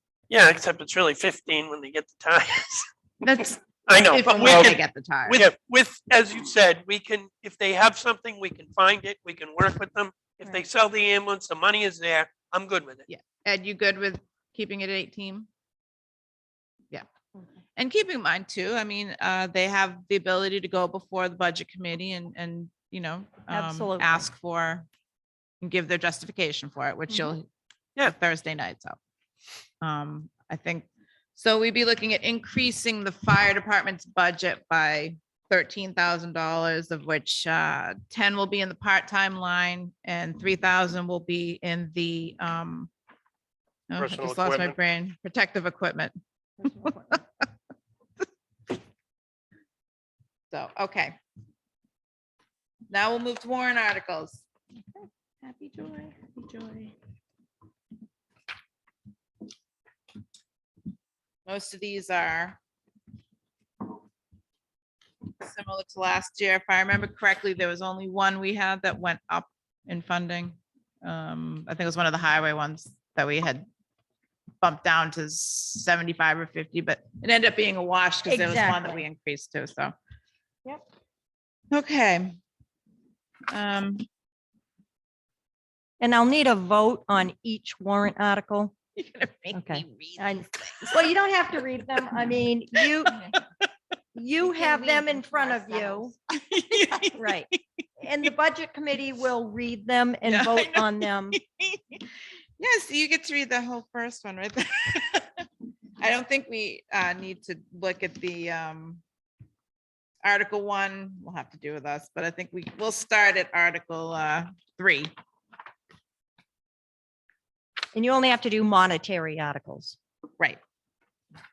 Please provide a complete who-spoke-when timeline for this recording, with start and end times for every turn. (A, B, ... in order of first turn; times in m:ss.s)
0:00.3-0:02.9 A
0:03.2-0:05.5 B
0:03.9-0:13.0 A
0:13.1-0:15.5 B
0:17.8-0:24.9 B
0:23.5-0:24.2 C
0:25.6-0:27.5 B
0:28.0-0:29.0 B
0:29.8-0:42.9 B
0:43.9-0:46.1 B
0:44.0-0:44.8 A
0:46.6-0:47.1 C
0:46.8-0:47.2 B
0:50.5-0:51.2 B
0:52.9-0:54.4 B
0:55.4-0:56.8 C
1:01.5-1:02.6 B
1:05.4-1:13.7 B
1:14.6-1:19.9 B
1:18.3-1:19.0 C
1:21.7-1:22.4 B
1:23.5-1:24.0 B
1:26.0-1:28.8 C
1:29.0-1:31.1 B
1:29.5-1:33.2 C
1:32.8-1:33.4 B
1:34.2-1:36.1 C
1:34.6-1:35.2 B
1:36.3-1:37.6 B
1:37.1-1:37.5 C
1:38.0-1:41.4 C
1:40.3-1:42.0 B
1:42.6-1:45.5 B
1:46.0-1:49.0 B
1:50.2-1:55.1 B
1:57.9-2:00.0 C